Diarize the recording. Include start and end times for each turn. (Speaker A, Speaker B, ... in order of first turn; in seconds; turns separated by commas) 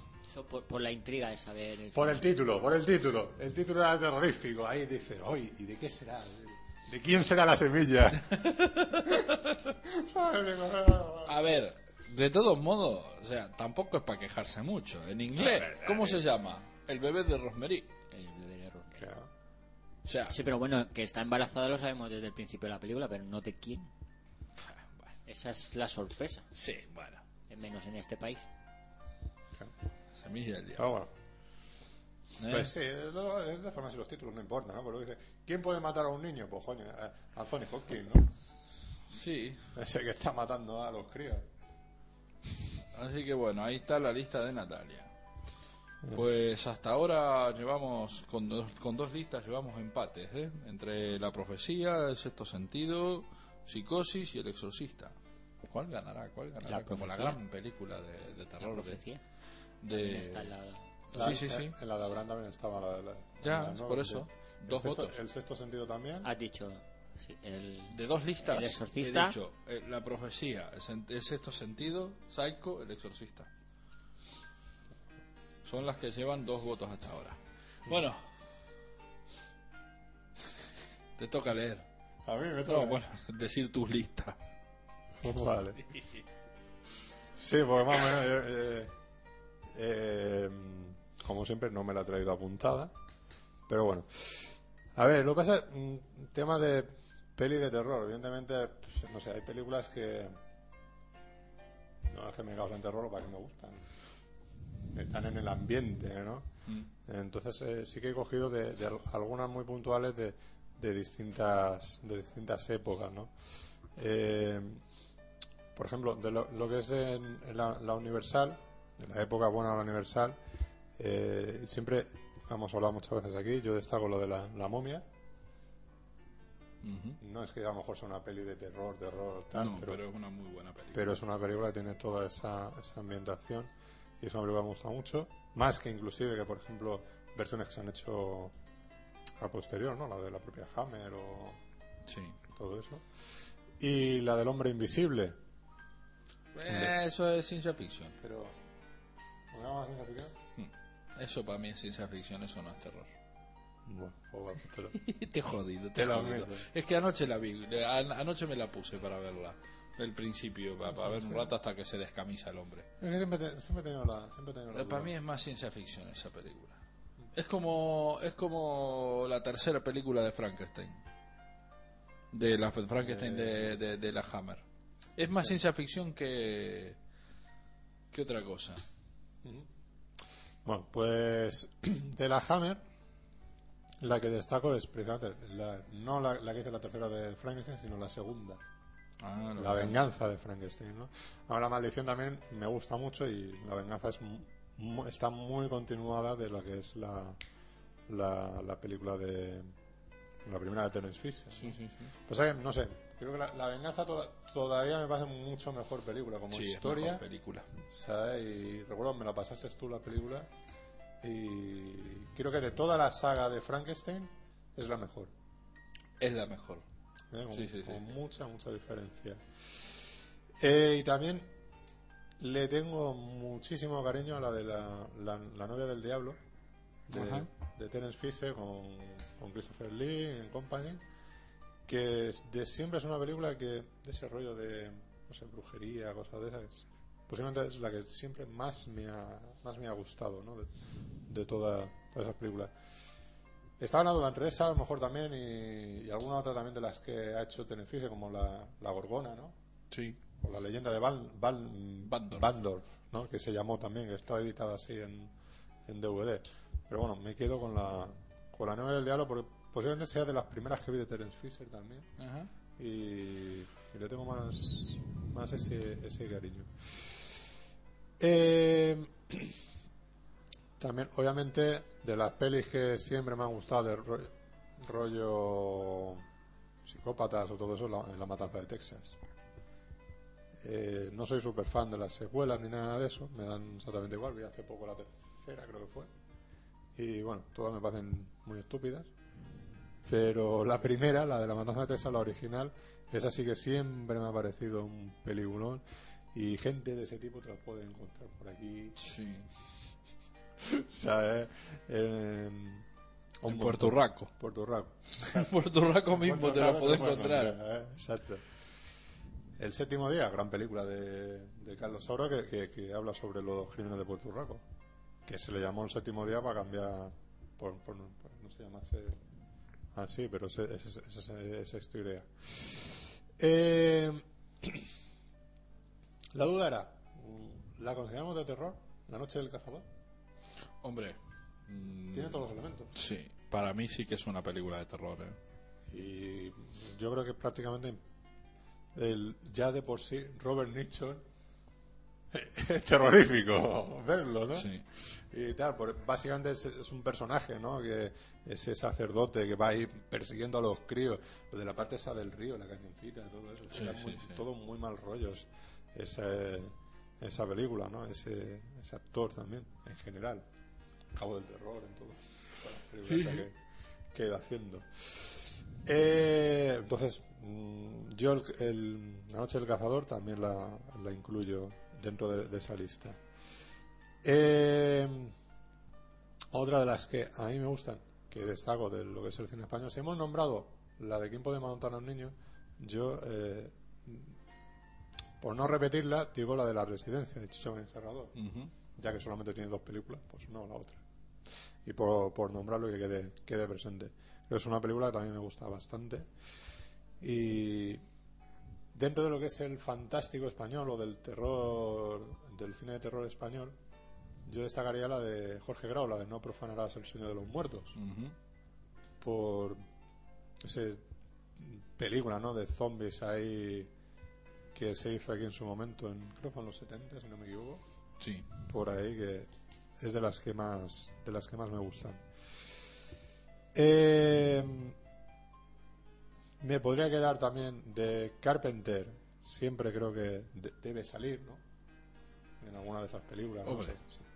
Speaker A: 0.3-2.3, Speaker B: 1.9-11.4, Speaker C: 11.2-17.9, Speaker B: 15.4-16.2, Speaker A: 18.1-19.1, Speaker B: 19.0-19.3, Speaker C: 20.1-20.4, Speaker A: 20.3-23.9, Speaker C: 24.6-25.1, Speaker A: 25.3-26.5, Speaker C: 26.5-27.2, Speaker A: 27.5-28.5, Speaker C: 30.2-30.9, Speaker B: 30.8-31.1, Speaker C: 32.4-32.7, Speaker B: 32.5-38.3, Speaker C: 39.1-39.7, Speaker B: 39.8-41.5, Speaker C: 42.9-45.1, Speaker C: 46.1-55.2, Speaker C: 55.7-59.0, Speaker A: 56.7-57.4, Speaker A: 58.6-59.2, Speaker C: 59.8-60.5, Speaker A: 59.9-61.4, Speaker C: 61.1-61.8, Speaker B: 61.1-66.3, Speaker C: 63.4-65.2, Speaker A: 66.2-69.4, Speaker C: 67.9-73.5, Speaker C: 75.7-78.2, Speaker C: 81.2-81.8, Speaker B: 82.3-83.0, Speaker C: 82.7-84.4, Speaker B: 85.2-85.8, Speaker B: 87.3-89.0, Speaker B: 89.7-92.9, Speaker B: 93.7-100.4, Speaker B: 102.1-103.9, Speaker B: 104.9-106.5, Speaker B: 107.0-113.3, Speaker B: 114.0-114.8, Speaker B: 115.8-120.4, Speaker B: 121.0-125.1, Speaker C: 126.8-127.2, Speaker B: 127.2-130.0, Speaker C: 129.6-131.2, Speaker B: 130.9-138.5, Speaker B: 139.4-141.6, Speaker C: 142.1-142.4, Speaker B: 142.5-143.1, Speaker B: 143.8-145.4, Speaker C: 146.6-148.2, Speaker B: 146.7-146.9, Speaker B: 148.2-148.6, Speaker B: 149.5-150.4, Speaker C: 150.6-153.1, Speaker B: 153.9-155.0, Speaker C: 154.9-162.9, Speaker B: 155.9-156.7, Speaker B: 160.9-161.5, Speaker B: 163.0-165.1, Speaker C: 164.7-166.8, Speaker C: 167.3-171.0, Speaker C: 172.3-174.6, Speaker B: 173.0-173.8, Speaker C: 175.2-177.0, Speaker C: 178.1-178.8, Speaker B: 180.7-182.8, Speaker B: 184.0-188.6, Speaker C: 189.2-190.1, Speaker B: 189.6-197.4, Speaker B: 198.1-199.7, Speaker B: 200.4-207.2, Speaker C: 201.6-202.1, Speaker C: 206.5-207.7, Speaker B: 207.9-210.5, Speaker B: 211.2-215.3, Speaker C: 216.2-216.8, Speaker B: 217.3-219.4, Speaker C: 217.5-218.0, Speaker B: 220.6-221.5, Speaker B: 222.4-226.4, Speaker B: 227.1-231.0, Speaker C: 227.1-227.5, Speaker B: 231.9-240.7, Speaker B: 241.3-242.7, Speaker B: 243.8-249.6, Speaker C: 249.9-250.2, Speaker B: 250.4-255.3, Speaker C: 252.1-252.5, Speaker B: 255.9-262.1, Speaker C: 262.2-262.5, Speaker B: 262.8-267.1, Speaker B: 268.2-269.6, Speaker B: 270.8-276.2, Speaker B: 276.9-279.2, Speaker B: 280.6-286.1, Speaker B: 286.9-289.1, Speaker B: 290.1-299.0, Speaker C: 299.0-299.5, Speaker B: 300.6-302.9, Speaker B: 303.4-305.5, Speaker C: 303.4-304.3, Speaker C: 305.2-307.6, Speaker B: 306.1-308.4, Speaker B: 309.6-314.6, Speaker B: 315.3-319.2, Speaker B: 319.9-324.9, Speaker B: 326.3-329.9, Speaker C: 330.8-335.4, Speaker B: 332.1-332.9, Speaker B: 335.9-338.0, Speaker B: 338.9-341.2, Speaker B: 342.3-360.5, Speaker C: 344.5-344.8, Speaker C: 353.7-354.4, Speaker B: 361.1-363.6, Speaker C: 363.1-363.4, Speaker B: 364.1-373.2, Speaker B: 374.2-375.3, Speaker B: 376.5-384.4, Speaker B: 385.4-388.4, Speaker C: 388.4-388.7, Speaker B: 389.0-391.0, Speaker B: 391.9-396.3, Speaker B: 397.2-398.0, Speaker B: 398.9-403.8, Speaker B: 404.4-407.9, Speaker C: 408.0-408.4, Speaker B: 409.2-409.8, Speaker B: 410.6-411.1, Speaker B: 411.6-413.9, Speaker B: 414.7-417.8, Speaker C: 418.2-418.5, Speaker B: 418.7-422.2, Speaker B: 423.7-425.0, Speaker B: 426.6-431.6, Speaker B: 432.6-434.2, Speaker C: 433.6-434.0